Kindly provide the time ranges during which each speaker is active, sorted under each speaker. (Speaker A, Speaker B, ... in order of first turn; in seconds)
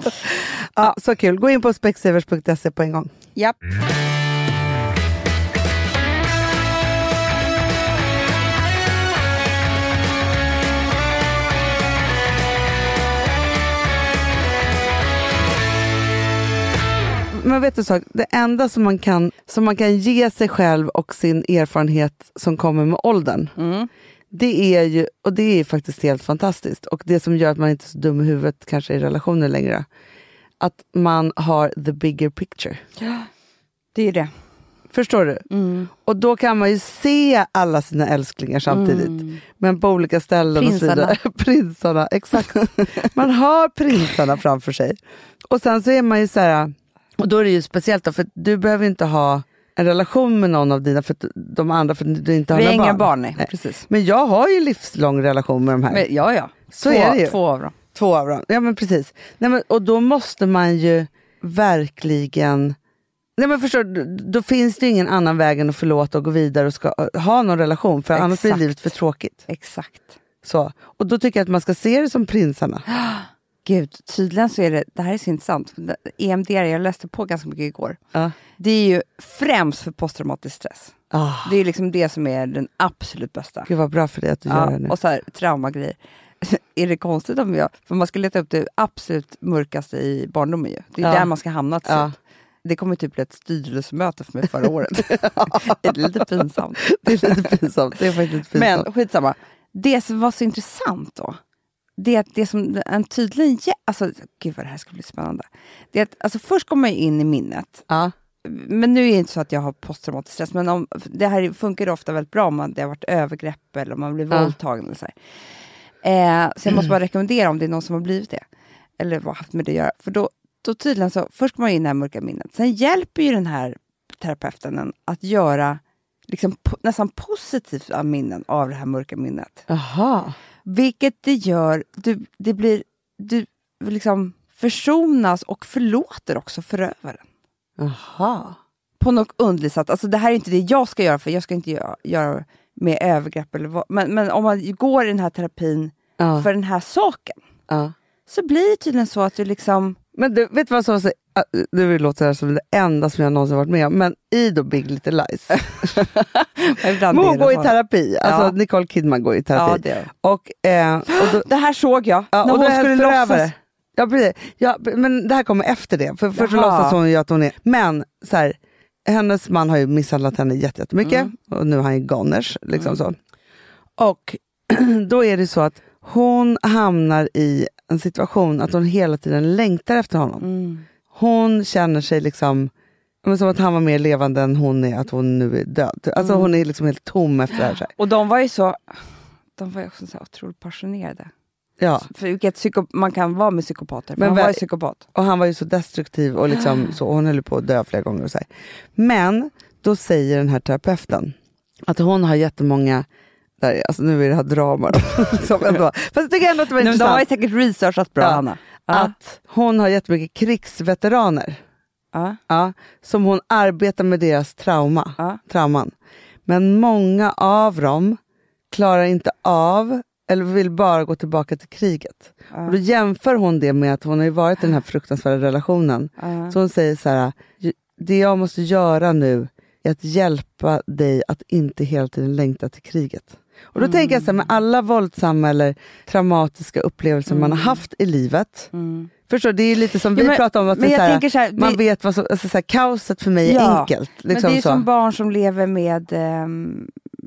Speaker A: 0.3-3.1, 17.3-23.5, 24.3-29.9, 30.6-32.8, 34.9-56.0, 56.7-57.4, 57.9-62.8, 63.4-69.5, 70.4-72.8, 81.1-81.5, 83.7-84.9, 91.0-91.3, 91.8-92.1, 95.1-96.0, 96.9-98.8, 129.7-130.3, 137.8-138.6, 146.2-146.5, 147.7-147.9, 150.1-156.1, 157.1-161.4, 162.3-173.2, 174.0-180.4, 181.1-182.7, 183.2-187.9, 191.8-192.1, 194.2-194.6, 195.1-203.1, 203.6-207.2, 208.2-211.6, 212.5-215.9, 216.4-218.2, 218.7-238.7, 239.3-244.8
Speaker B: 23.6-23.9, 33.0-33.3, 33.9-34.3, 35.5-35.9, 38.7-39.4, 40.5-41.2, 52.5-53.9, 55.9-57.7, 68.1-68.7, 69.5-70.2, 72.9-78.0, 78.5-83.7, 84.5-92.1, 92.6-97.5, 98.5-101.4, 102.0-107.8, 108.4-115.1, 116.0-118.4, 119.0-129.7, 130.6-137.2, 139.0-147.4, 148.3-150.0, 155.6-158.5, 159.5-160.1, 161.1-163.5, 166.3-167.0, 171.0-171.3, 180.4-180.8, 186.2-186.5, 188.0-188.8, 189.6-191.3, 192.1-195.0, 206.8-209.1, 212.1-212.4, 222.5-222.8, 226.2-226.5, 233.8-234.3, 237.3-237.8, 238.7-239.1, 240.1-241.8, 243.4-246.9